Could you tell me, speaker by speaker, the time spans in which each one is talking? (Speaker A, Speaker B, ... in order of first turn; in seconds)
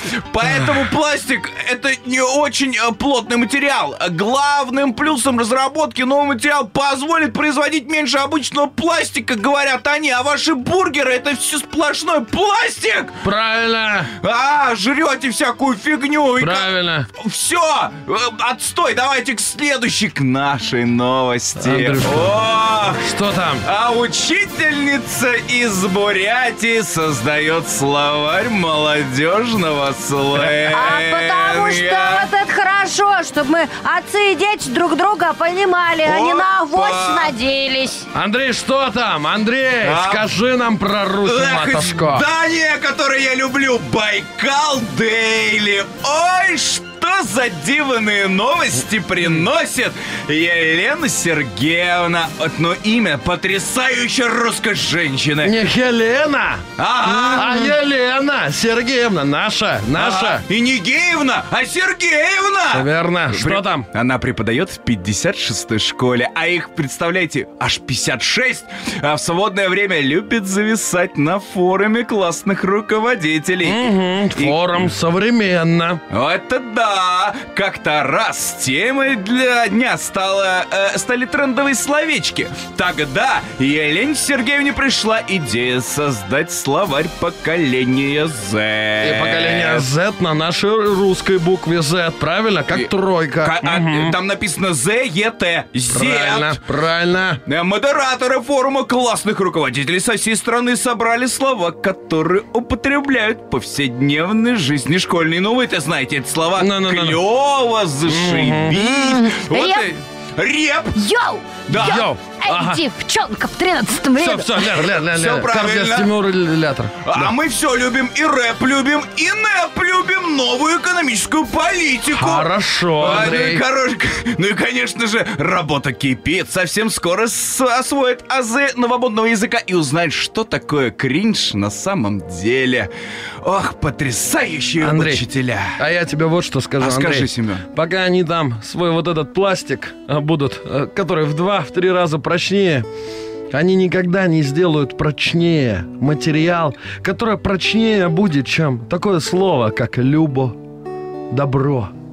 Speaker A: 0.3-13.2, 14.2-23.0, 23.6-32.3, 36.0-37.3, 39.8-40.3, 41.2-55.5, 56.8-57.5, 60.0-74.6, 76.1-89.9, 93.4-96.6, 97.5-111.0, 111.7-112.1, 115.0-116.1, 117.0-132.9, 133.4-135.8, 136.8-137.6
Speaker B: 13.2-14.1, 16.4-17.1, 21.6-22.4, 23.0-23.6, 38.1-42.3, 55.4-56.6, 57.3-60.4, 62.7-63.9, 73.6-76.0, 89.0-94.2, 95.9-97.4, 106.6-107.2, 108.0-108.8, 111.8-112.8, 114.2-117.3, 122.1-123.6, 134.8-142.9, 143.5-150.6, 151.3-151.9
Speaker C: 30.7-38.1, 57.1-57.6, 108.8-109.9, 111.0-114.8